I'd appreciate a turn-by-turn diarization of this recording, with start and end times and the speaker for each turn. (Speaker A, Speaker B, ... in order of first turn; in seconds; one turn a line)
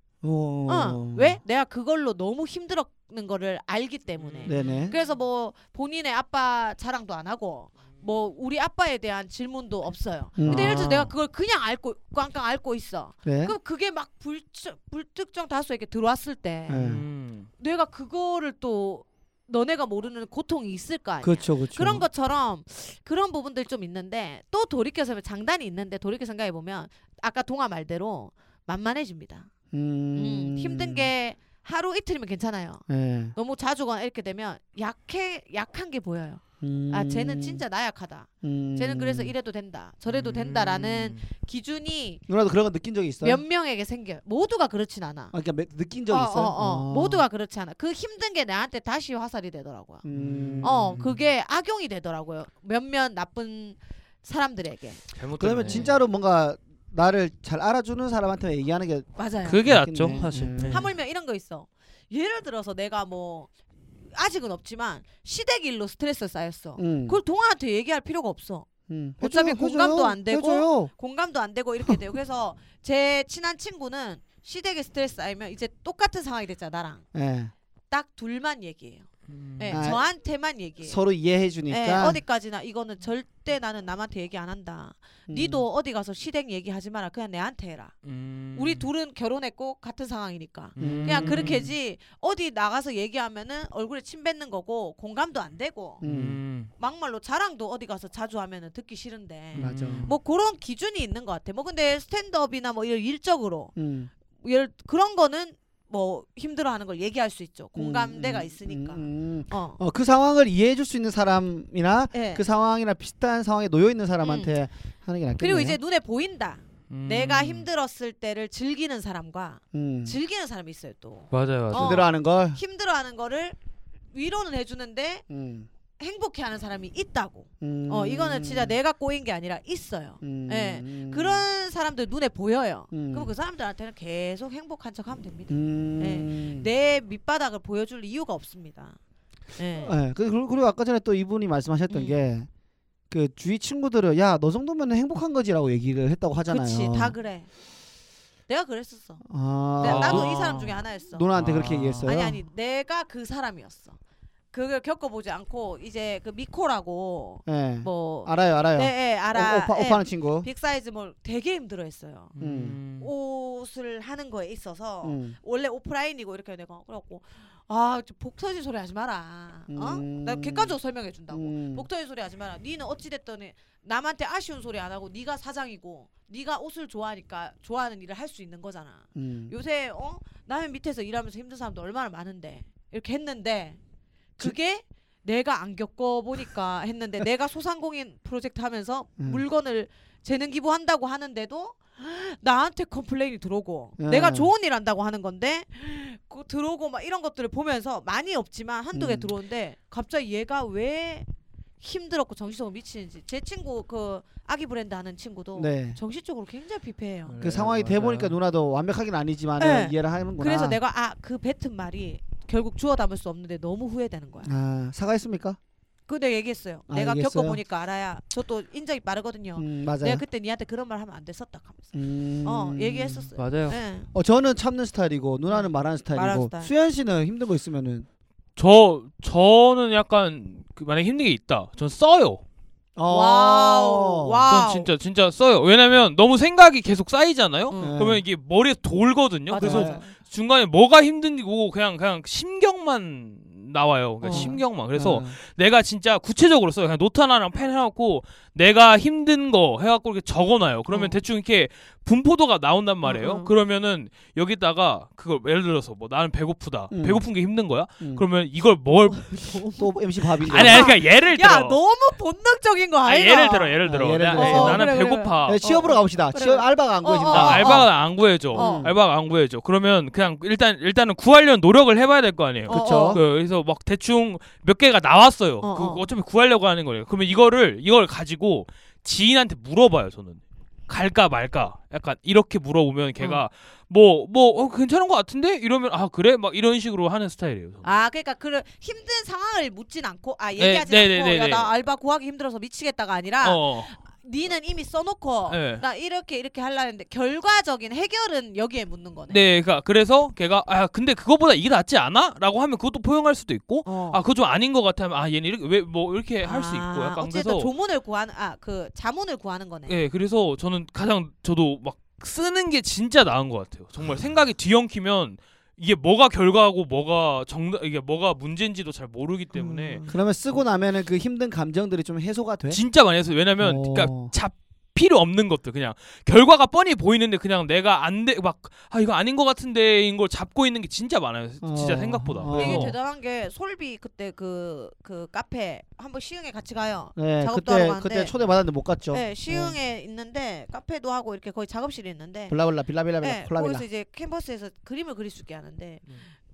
Speaker A: 0.2-1.4
Speaker B: 0.7-16.9
Speaker C: 4.2-4.9
Speaker A: 4.5-4.9
Speaker A: 10.4-11.0
Speaker C: 10.5-11.1
Speaker A: 13.2-13.6
Speaker A: 16.7-17.1
Speaker C: 16.8-17.5
Speaker B: 17.6-29.5
Speaker A: 21.2-22.1
Speaker A: 29.7-31.1
Speaker B: 30.2-42.2
Speaker A: 32.9-33.4
Speaker A: 36.6-37.6
Speaker A: 38.4-39.3
Speaker C: 40.1-41.3
Speaker A: 42.3-43.4
Speaker B: 43.2-45.3
Speaker A: 45.3-47.2
Speaker B: 46.1-50.0
Speaker A: 50.0-51.2
Speaker C: 50.1-50.9
Speaker B: 50.6-55.0
Speaker C: 55.1-56.0
Speaker A: 55.4-59.1
Speaker B: 55.6-55.9
Speaker B: 59.2-59.6
Speaker C: 59.5-60.9
Speaker A: 59.6-60.9
Speaker B: 60.7-63.5
Speaker B: 64.1-68.7
Speaker A: 66.8-67.2
Speaker A: 68.9-70.9
Speaker B: 69.2-77.0
Speaker A: 77.1-77.5
Speaker B: 77.9-81.0
Speaker C: 79.3-80.0
Speaker A: 79.7-80.0
Speaker A: 80.8-82.2
Speaker B: 81.7-88.0
Speaker A: 85.3-85.7
Speaker C: 88.0-88.9
Speaker B: 88.5-96.0
Speaker C: 90.8-91.7
Speaker A: 90.8-91.7
Speaker A: 96.0-96.4
Speaker C: 96.0-96.7
Speaker B: 96.8-103.7
Speaker C: 99.5-100.1
Speaker A: 99.5-100.1
Speaker A: 103.8-104.1
Speaker B: 104.4-109.8
Speaker A: 107.8-115.8
Speaker B: 112.1-112.4
Speaker B: 114.2-114.5
Speaker B: 115.4-123.6
Speaker C: 116.9-117.7
Speaker A: 119.7-120.2
Speaker C: 121.3-122.0
Speaker A: 121.7-122.6
Speaker B: 124.1-125.2
Speaker A: 125.3-125.7
Speaker B: 126.0-139.0
Speaker A: 127.6-128.8
Speaker A: 130.2-131.4
Speaker A: 132.9-133.3
Speaker A: 135.5-136.7
Speaker B: 139.5-139.9
Speaker A: 139.8-142.5
Speaker B: 141.9-142.2
Speaker A: 143.1-147.2
Speaker B: 146.5-147.5
Speaker B: 148.5-149.2
Speaker A: 149.2-152.4
Speaker B: 149.8-151.3
Speaker C: 149.8-150.3
Speaker C: 151.3-152.1
Speaker B: 152.1-154.0
Speaker B: 154.5-162.3
Speaker A: 157.5-160.5
Speaker C: 162.4-163.1
Speaker A: 162.4-162.8
Speaker B: 163.0-183.8
Speaker A: 165.0-165.4
Speaker A: 169.7-170.8
Speaker A: 171.3-171.9
Speaker A: 179.2-179.5
Speaker B: 184.4-201.3
Speaker A: 194.0-194.5
Speaker A: 198.9-199.3
Speaker B: 201.8-207.4
Speaker A: 205.6-206.0
Speaker C: 207.3-208.4
Speaker A: 207.4-210.8
Speaker B: 209.6-214.6
Speaker A: 214.4-215.6
Speaker B: 216.1-224.1
Speaker A: 216.9-217.6
Speaker A: 219.6-220.2
Speaker A: 221.9-223.3
Speaker C: 223.4-223.8
Speaker A: 224.1-228.1
Speaker B: 225.5-226.7
Speaker C: 228.6-232.4
Speaker A: 233.0-234.4
Speaker B: 233.1-234.9
Speaker C: 234.5-259.6
Speaker B: 237.7-238.1
Speaker A: 237.8-238.2
Speaker B: 239.5-240.1
Speaker A: 239.6-240.1
Speaker B: 244.2-244.6
Speaker A: 244.3-245.3
Speaker B: 250.9-251.2
Speaker B: 253.0-253.5
Speaker A: 256.9-257.3
Speaker B: 259.1-263.8
Speaker A: 259.8-260.9
Speaker C: 260.4-261.8
Speaker C: 263.1-265.6
Speaker A: 263.8-267.9
Speaker B: 264.3-267.9
Speaker C: 267.3-288.0
Speaker A: 268.5-268.9
Speaker B: 268.5-268.9
Speaker B: 272.7-273.2
Speaker A: 272.7-273.2
Speaker B: 275.6-276.1
Speaker B: 287.8-299.4
Speaker C: 290.6-291.7
Speaker C: 293.4-294.0
Speaker C: 295.5-295.8
Speaker C: 299.3-307.7
Speaker B: 303.9-304.2
Speaker B: 306.4-310.0
Speaker C: 309.9-320.0
Speaker B: 319.5-320.2
Speaker A: 320.1-322.8
Speaker C: 322.7-333.0
Speaker A: 323.6-324.3
Speaker A: 331.6-332.9
Speaker B: 332.5-338.3
Speaker A: 337.2-339.8
Speaker B: 339.1-342.6
Speaker A: 342.5-343.9
Speaker B: 343.2-346.3